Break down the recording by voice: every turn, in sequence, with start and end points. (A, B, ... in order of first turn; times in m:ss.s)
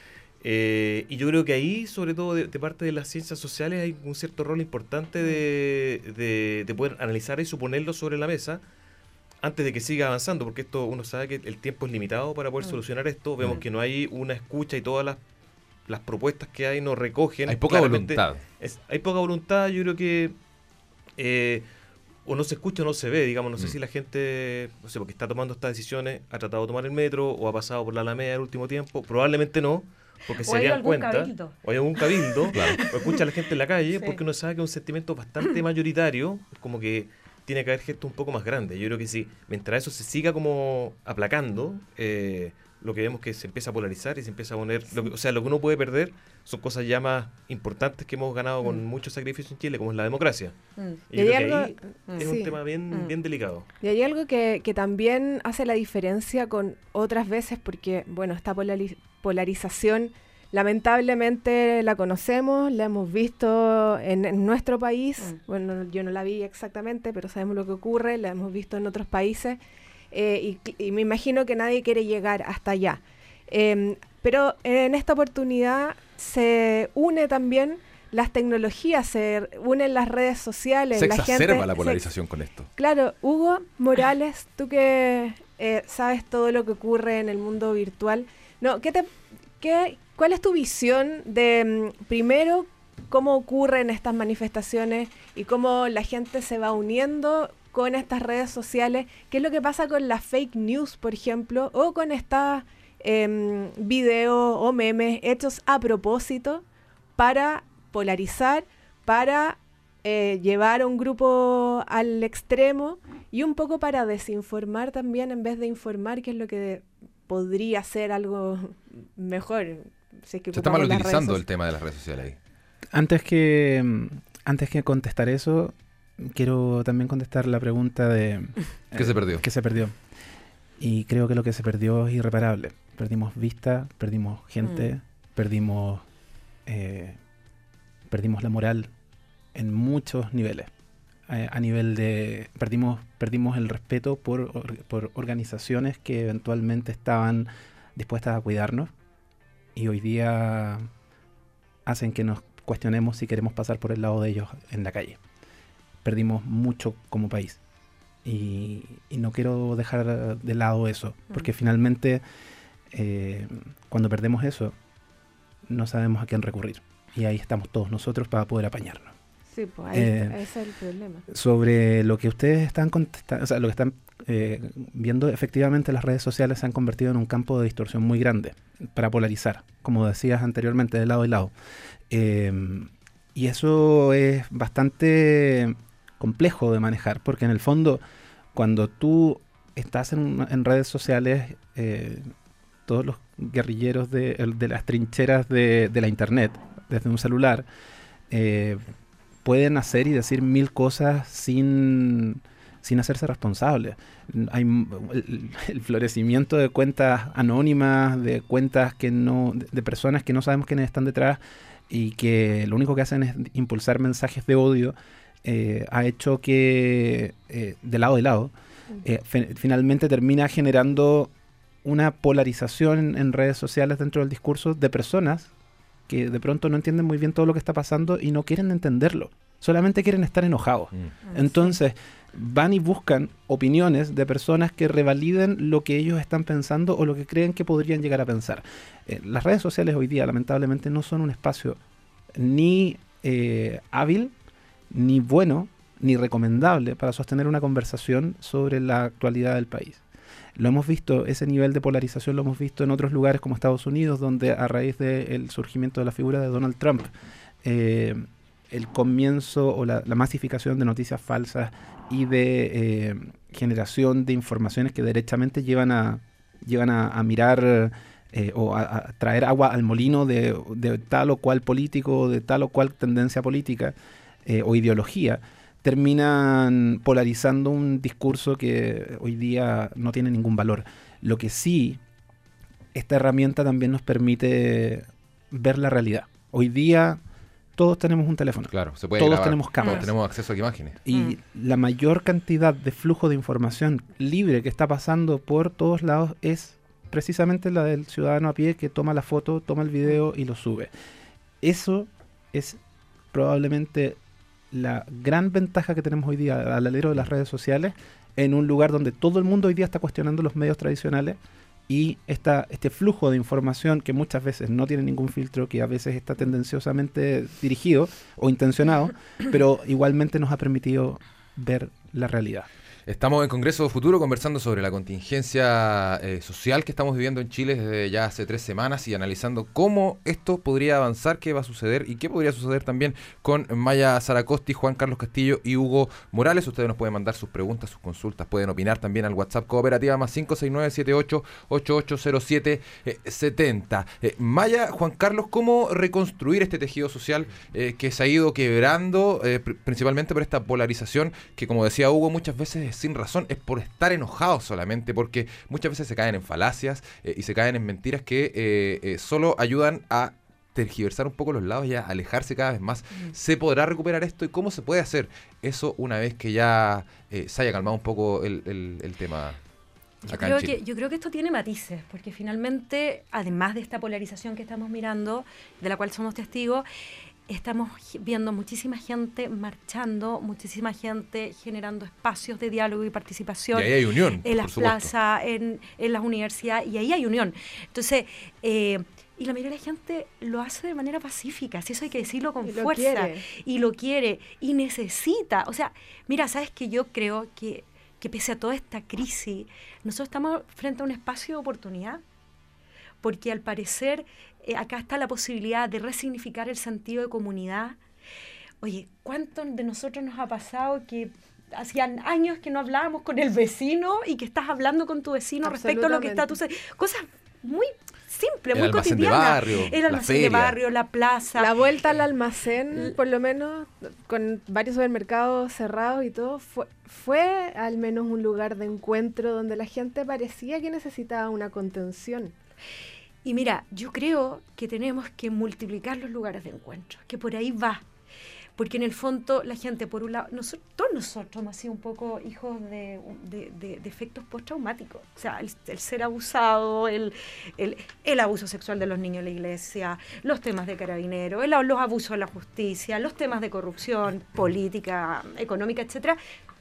0:00.4-0:08.6 A
0:09.4-0:15.2 A
0:15.9-0:20.4 A
0:17.5-0:18.4 B
0:21.2-0:21.6 A
0:22.2-0:50.6 A
0:30.4-0:31.6 C
0:32.5-0:32.8 B
0:32.5-0:32.9 C
0:33.9-0:34.2 C
0:51.1-0:53.7 A
0:51.1-0:52.5 D
0:53.8-1:09.6 D
1:10.1-1:22.1 D
1:20.9-1:22.7 B
1:22.8-1:46.6 D
1:47.2-2:01.4 D
2:00.5-2:02.4 B
2:02.9-2:10.0 E
2:09.0-2:09.4 B
2:10.8-2:16.0 E
2:14.6-2:14.9 C
2:16.7-2:17.2 E
2:18.1-2:18.9 E
2:19.5-2:20.7 E
2:21.3-2:28.9 E
2:29.8-2:30.9 E
2:31.9-2:35.2 E
2:36.0-2:37.6 E
2:38.2-2:42.2 E
2:42.9-2:44.8 E
2:45.7-2:49.1 E
2:49.5-2:51.2 D
2:49.9-2:50.4 E
2:51.3-3:01.5 E
3:02.1-3:08.0 E
3:08.5-3:12.3 E
3:12.9-3:17.7 E
3:18.3-3:18.8 E
3:19.4-3:41.3 E
3:41.8-3:45.5 E
3:46.1-4:01.8 E
3:51.3-3:51.8 C
4:02.4-4:04.3 E
4:04.9-4:10.0 E
4:10.6-4:17.1 E
4:17.6-4:34.0 E
4:34.5-4:42.0 E
4:42.9-4:47.2 E
4:47.8-4:50.1 E
4:48.7-4:51.0 B
4:49.8-4:50.1 C
4:51.0-5:00.9 E
5:01.6-5:02.8 E
5:03.3-5:04.2 E
5:04.7-5:22.7 E
5:23.1-6:09.6 B
6:10.3-6:10.8 B
6:10.3-6:16.9 C
6:17.5-6:42.2 C
6:23.7-6:25.1 B
6:32.6-6:33.4 D
6:43.2-6:48.0 C
6:48.8-7:01.7 C
6:55.6-6:56.5 D
6:58.7-7:00.8 B
7:01.6-7:12.5 D
7:13.4-7:18.0 C
7:18.8-7:36.4 C